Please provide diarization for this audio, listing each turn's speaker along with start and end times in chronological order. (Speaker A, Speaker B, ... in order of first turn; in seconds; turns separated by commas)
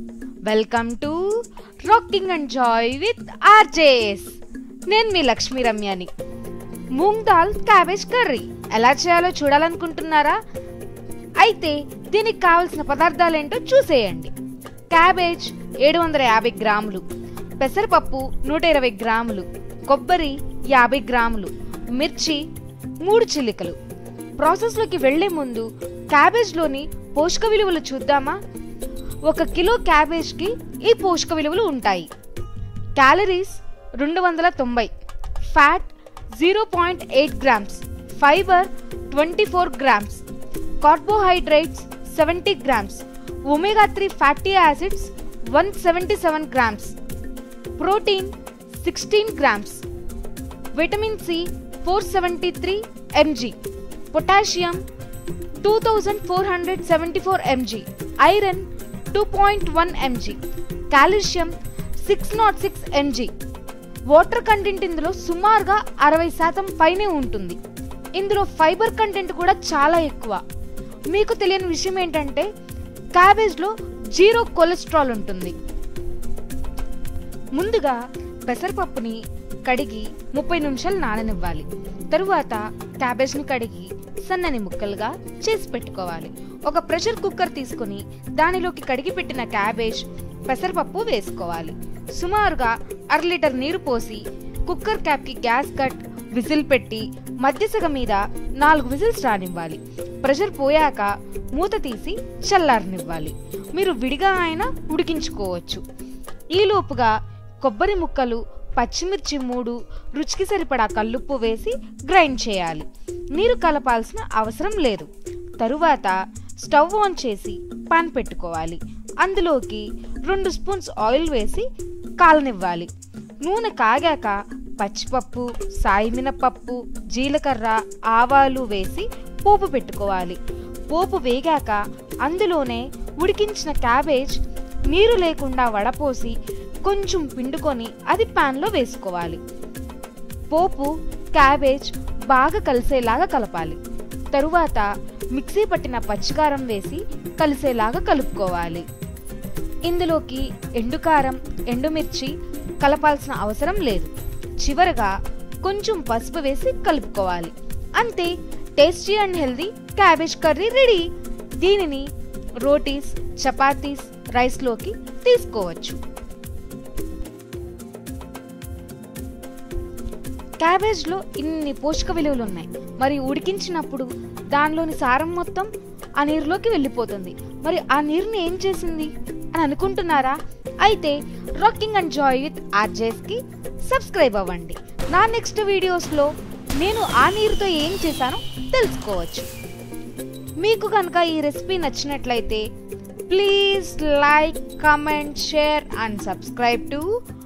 Speaker A: 0.5-4.4, Speaker A: 4.9-6.1, Speaker A: 7.0-10.4, Speaker A: 11.4-14.3, Speaker A: 14.9-17.1, Speaker A: 17.6-22.4, Speaker A: 23.0-23.8, Speaker A: 24.4-28.4, Speaker A: 29.3-32.1, Speaker A: 33.0-34.9, Speaker A: 35.5-40.2, Speaker A: 40.8-47.0, Speaker A: 47.8-49.8, Speaker A: 50.7-53.6, Speaker A: 54.1-54.8, Speaker A: 55.6-60.4, Speaker A: 60.9-63.3, Speaker A: 64.1-67.6, Speaker A: 68.2-70.4, Speaker A: 71.1-72.5, Speaker A: 73.2-75.6, Speaker A: 77.5-105.8, Speaker A: 106.5-121.7, Speaker A: 122.2-122.9, Speaker A: 123.4-139.4, Speaker A: 140.5-143.8, Speaker A: 144.3-148.8, Speaker A: 149.8-161.1, Speaker A: 161.6-162.1, Speaker A: 162.6-166.0, Speaker A: 170.6-189.5, Speaker A: 190.6-192.7, Speaker A: 193.3-197.2